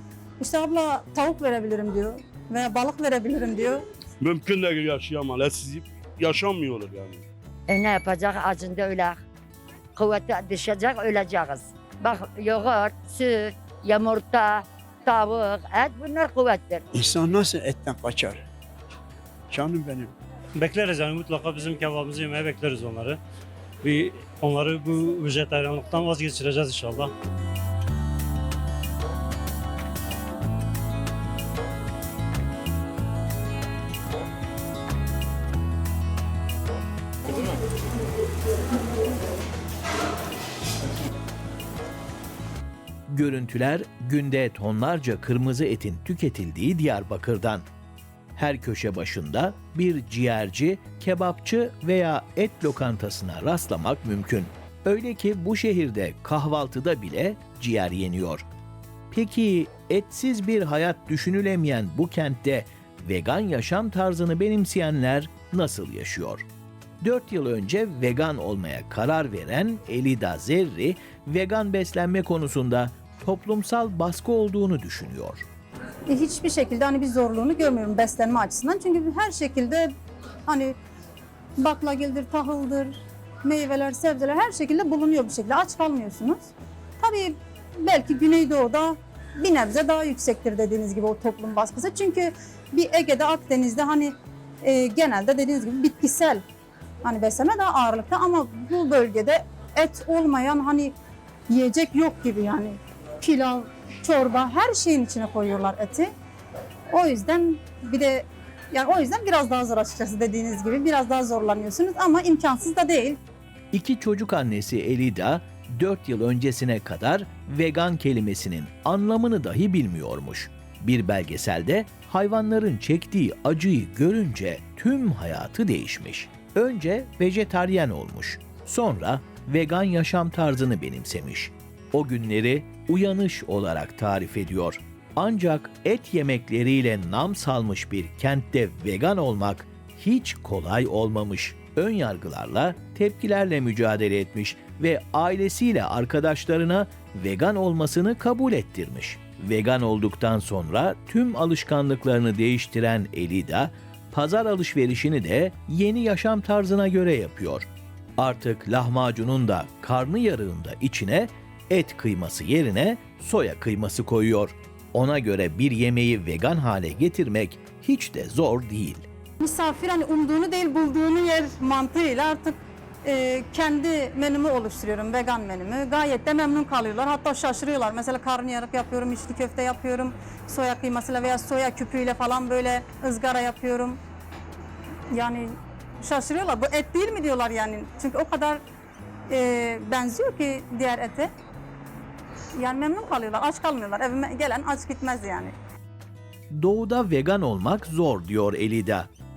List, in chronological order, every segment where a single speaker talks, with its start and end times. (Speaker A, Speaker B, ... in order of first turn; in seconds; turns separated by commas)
Speaker A: 0.4-3.8, Speaker B: 4.2-7.2, Speaker C: 7.7-9.2, Speaker C: 10.0-16.9, Speaker D: 16.9-18.4, Speaker D: 19.5-20.1, Speaker E: 20.6-23.2, Speaker E: 23.8-27.1, Speaker F: 43.1-47.6, Speaker F: 48.4-58.5, Speaker F: 59.1-66.4, Speaker F: 67.0-75.4, Speaker A: 76.1-79.9, Speaker A: 80.5-80.8, Speaker A: 81.6-96.4, Speaker A: 97.0-100.9, Speaker A: 101.5-106.1, Speaker A: 106.9-113.2, Speaker F: 113.7-157.7, Speaker F: 158.2-169.1, Speaker A: 169.4-184.0, Speaker A: 185.1-188.6, Speaker A: 189.3-191.3, Speaker A: 192.6-195.5, Speaker F: 196.6-199.1